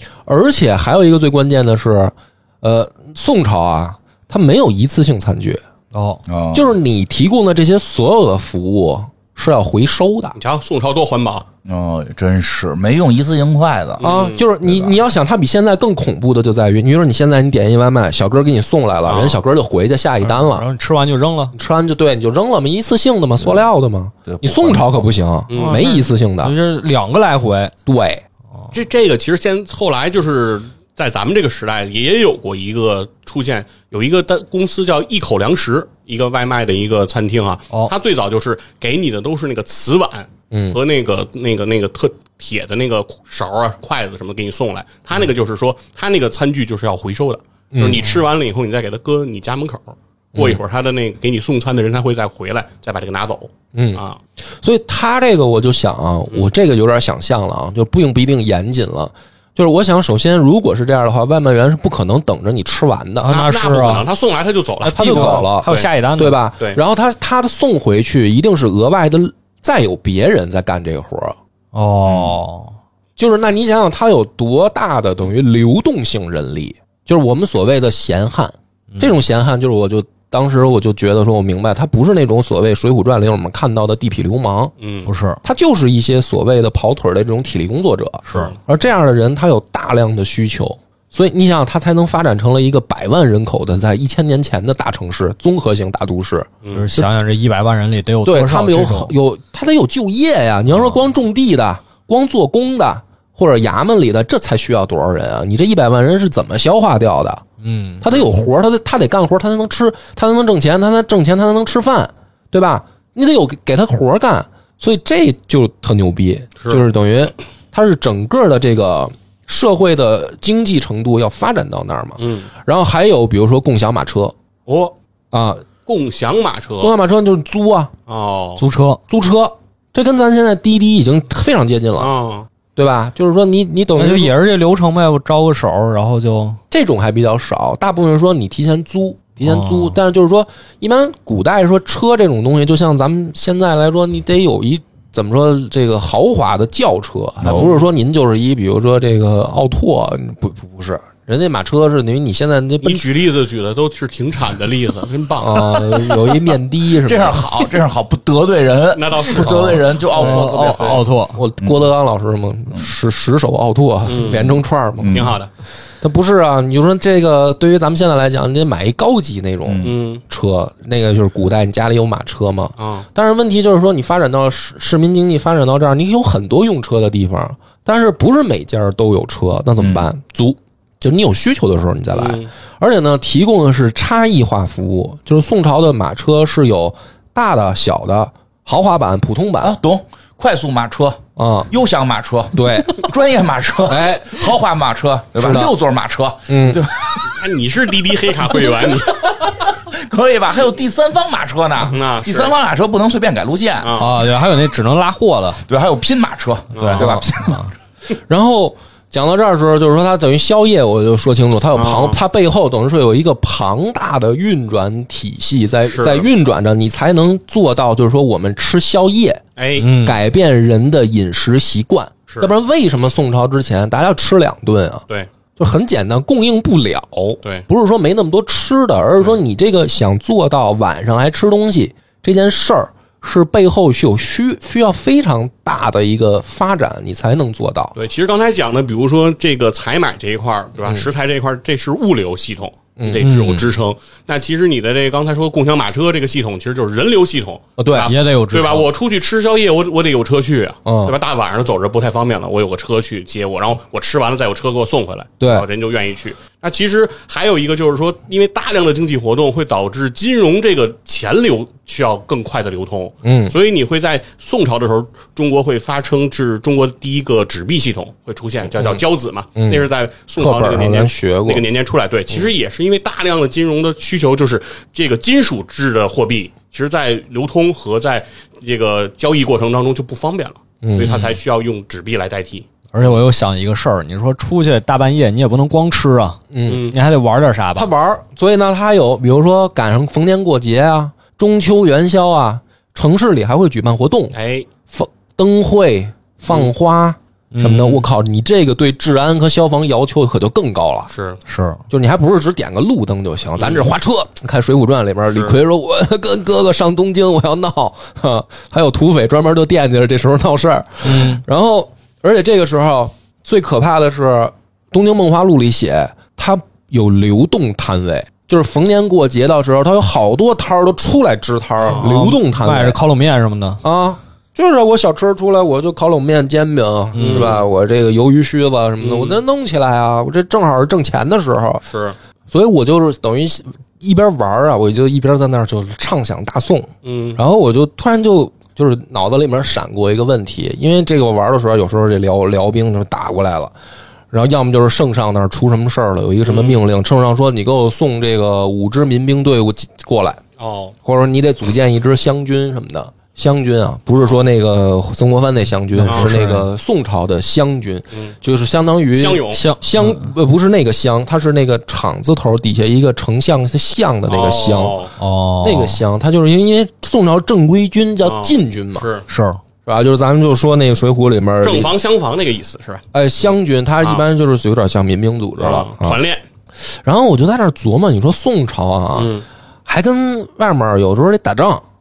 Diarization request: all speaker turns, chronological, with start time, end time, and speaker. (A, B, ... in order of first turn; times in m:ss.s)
0:00.3-0:05.6 A
0:05.9-0:06.2 B
0:06.3-0:06.7 C
0:06.5-0:10.4 A
0:10.4-0:11.4 D
0:11.6-0:14.0 C
0:14.0-0:14.4 D
0:14.0-0:20.7 A
0:14.6-0:15.0 C
0:19.0-0:19.4 D
0:20.2-0:21.5 B
0:21.5-0:26.5 A
0:24.2-0:25.1 C
0:25.5-0:25.9 D
0:25.5-0:27.7 B
0:27.8-0:28.2 A
0:28.7-0:54.2 D
0:40.5-0:40.8 A
0:47.7-0:48.0 A
0:53.7-0:54.0 A
0:54.6-1:03.3 A
1:03.2-1:04.1 B
1:03.3-1:05.9 D
1:04.8-1:06.4 B
1:04.9-1:11.4 A
1:11.7-1:12.7 B
1:12.0-1:12.4 C
1:13.2-1:24.7 A
1:18.9-1:19.2 B
1:24.8-1:25.1 D
1:25.0-1:25.4 B
1:25.4-1:37.1 A
1:28.2-1:28.5 B
1:36.6-1:36.9 D
1:36.7-1:39.1 B
1:38.2-1:47.4 A
1:47.6-1:48.0 B
1:48.0-2:04.3 A
2:02.2-2:02.5 D
2:04.6-2:04.9 D
2:05.3-2:05.6 A
2:05.9-2:06.9 D
2:06.8-2:07.9 A
2:08.1-2:08.6 D
2:08.6-2:09.0 B
2:09.1-2:12.1 A
2:12.0-2:12.5 D
2:12.8-2:14.4 A
2:14.0-2:16.6 B
2:16.7-2:33.1 A
2:19.4-2:20.0 B
2:27.4-2:27.8 C
2:32.8-2:35.8 D
2:35.4-2:37.5 A
2:37.0-2:41.0 C
2:38.9-2:41.0 D
2:39.4-2:39.8 A
2:40.2-2:41.4 B
2:41.2-2:45.3 A
2:41.6-2:41.9 C
2:44.0-2:45.5 D
2:45.0-2:45.4 C
2:46.0-3:09.8 A
2:49.6-2:49.9 C
2:49.8-2:50.2 D
2:52.8-2:53.1 D
2:59.8-3:00.1 C
3:02.1-3:02.5 D
3:09.6-3:17.3 C
3:11.4-3:11.7 A
3:12.5-3:13.1 A
3:13.9-3:14.4 A
3:15.4-3:15.7 A
3:16.5-3:16.8 A
3:17.2-3:19.5 D
3:18.5-3:24.0 C
3:21.9-3:22.5 D
3:23.8-3:24.2 D
3:24.0-3:25.6 B
3:25.7-3:27.6 C
3:26.7-3:27.2 D
3:26.8-3:27.7 B
3:28.3-3:45.0 A
3:31.7-3:32.2 D
3:35.9-3:36.3 D
3:39.6-3:39.9 D
3:39.8-3:40.2 B
3:45.6-3:58.0 A
3:47.3-3:47.6 D
3:58.0-4:43.2 D
4:03.0-4:03.2 A
4:03.2-4:03.7 B
4:07.8-4:08.1 A
4:08.0-4:08.9 B
4:10.8-4:11.1 A
4:15.4-4:15.6 A
4:23.2-4:23.6 A
4:29.5-4:31.6 A
4:40.8-4:41.3 A
4:42.9-4:47.9 B
4:46.5-4:46.9 A
4:46.7-4:47.0 D
4:47.7-4:54.4 A
4:54.3-4:54.7 D
4:54.9-5:01.1 A
4:57.5-4:58.0 B
5:01.1-5:01.4 D
5:01.4-5:01.8 B
5:01.9-5:23.0 A
5:03.6-5:03.9 D
5:05.3-5:05.6 D
5:11.0-5:11.4 B
5:21.8-5:22.1 D
5:22.0-5:23.8 B
5:23.8-5:31.8 A
5:27.1-5:27.6 B
5:27.2-5:27.6 D
5:29.0-5:29.4 D
5:31.8-5:32.1 D
5:32.5-5:43.7 A
5:37.0-5:37.4 D
5:44.3-5:50.4 A
5:46.4-5:46.8 D
5:50.6-5:50.9 D
5:51.0-6:05.0 A
5:55.9-5:56.6 B
5:56.0-5:56.3 D
5:59.1-5:59.6 D
5:59.5-6:00.3 B
6:04.3-6:05.1 D
6:05.2-6:06.0 B
6:05.6-6:09.1 A
6:08.2-6:09.2 D
6:09.3-6:09.6 B
6:09.8-6:11.9 A
6:11.6-6:13.0 D
6:13.1-6:16.2 A
6:15.6-6:16.4 D
6:16.9-6:19.3 A
6:19.1-6:19.4 D
6:19.8-6:21.8 A